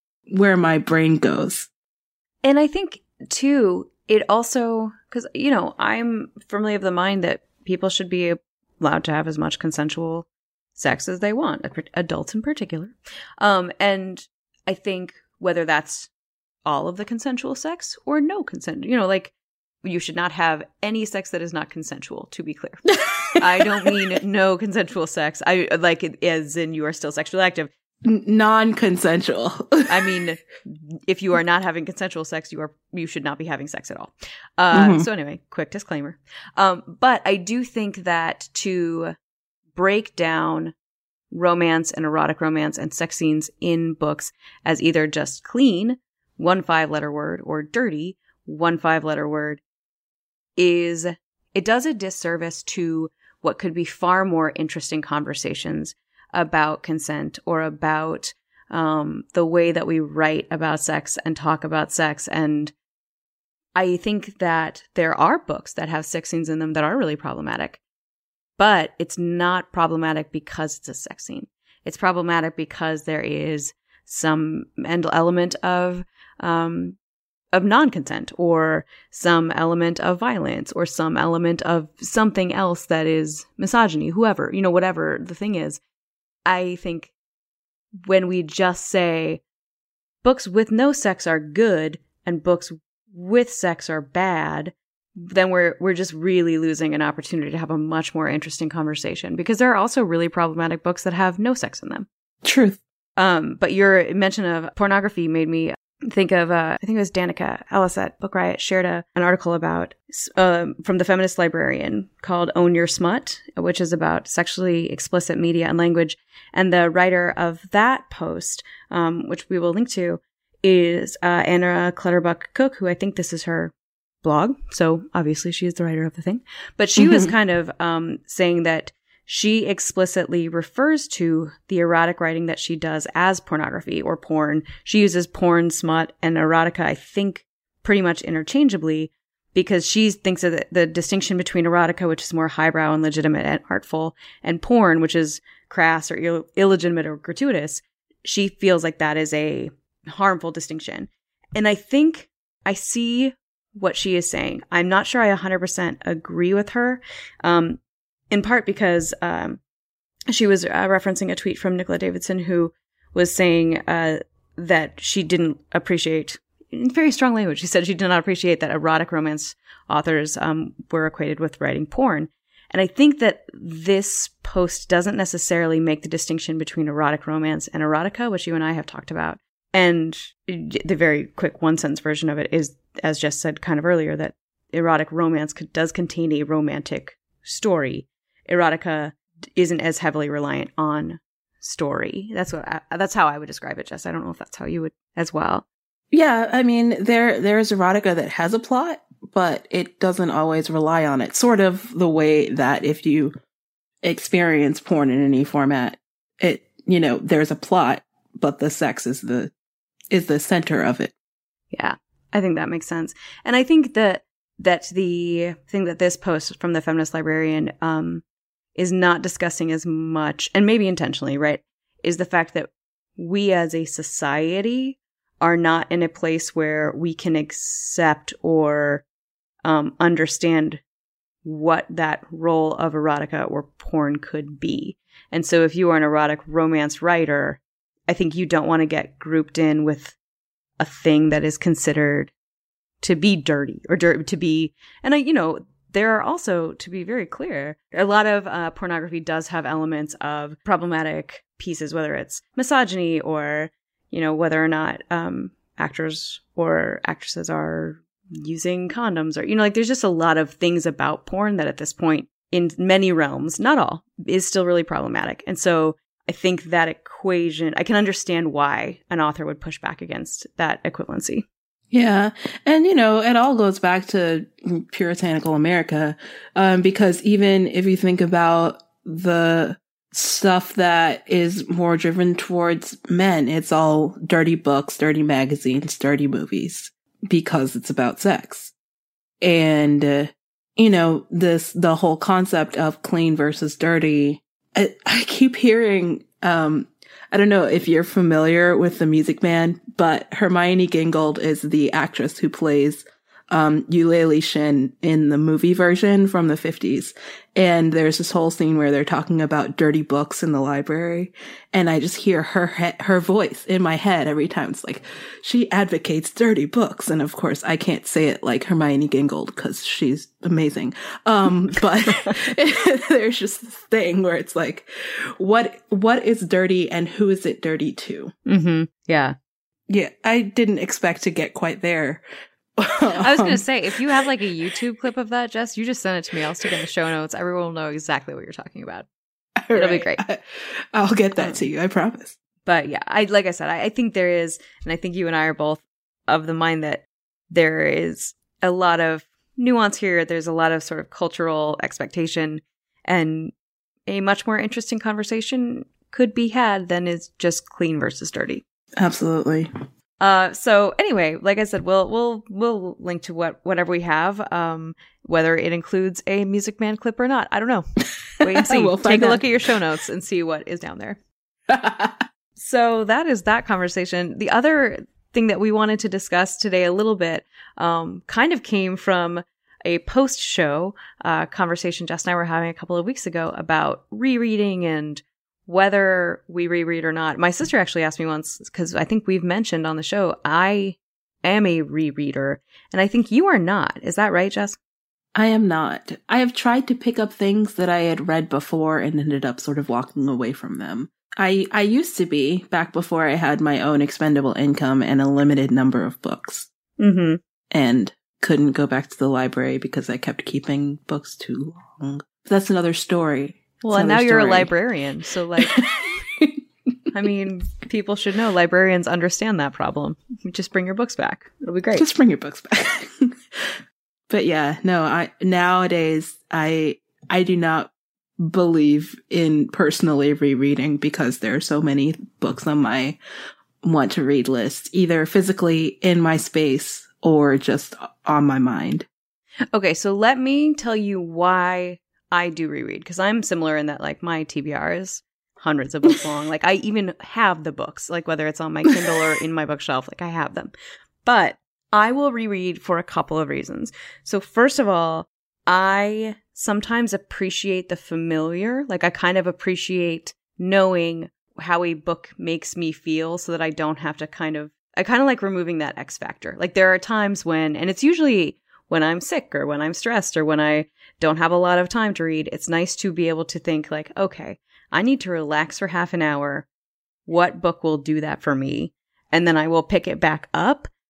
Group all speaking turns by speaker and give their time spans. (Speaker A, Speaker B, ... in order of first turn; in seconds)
Speaker A: 0.3-1.7, 23.0-24.0, 28.0-30.2, 34.7-35.1, 102.4-102.8, 127.0-127.3, 196.1-203.3, 204.0-209.5, 210.1-211.1, 271.9-288.7, 289.4-328.3, 329.9-332.2, 332.8-334.8, 339.6-342.4, 359.0-359.7, 368.4-369.8, 371.7-372.2, 395.3-406.7, 407.7-414.7, 415.6-416.6, 421.9-423.7, 424.3-433.2, 433.8-439.1
Speaker B: 2.4-16.1, 16.6-19.3, 19.8-22.8, 23.4-27.7, 29.9-39.1, 39.7-40.7, 41.3-49.6, 50.6-62.7, 63.7-67.8, 68.6-77.0, 77.5-85.8, 86.4-87.1, 88.0-89.4, 90.2-102.1, 103.2-123.7, 124.2-159.6, 160.3-195.6, 211.7-218.2, 218.8-229.0, 229.6-230.8, 231.4-240.2, 240.8-242.3, 243.0-271.4, 328.4-329.3, 333.2-339.1, 339.7-340.2, 342.6-353.5, 354.1-358.6, 360.2-367.8, 368.4-371.2, 372.6-394.8, 407.0-407.4, 413.8-415.8, 417.1-422.1, 439.7-450.7, 451.2-476.6, 477.3-480.9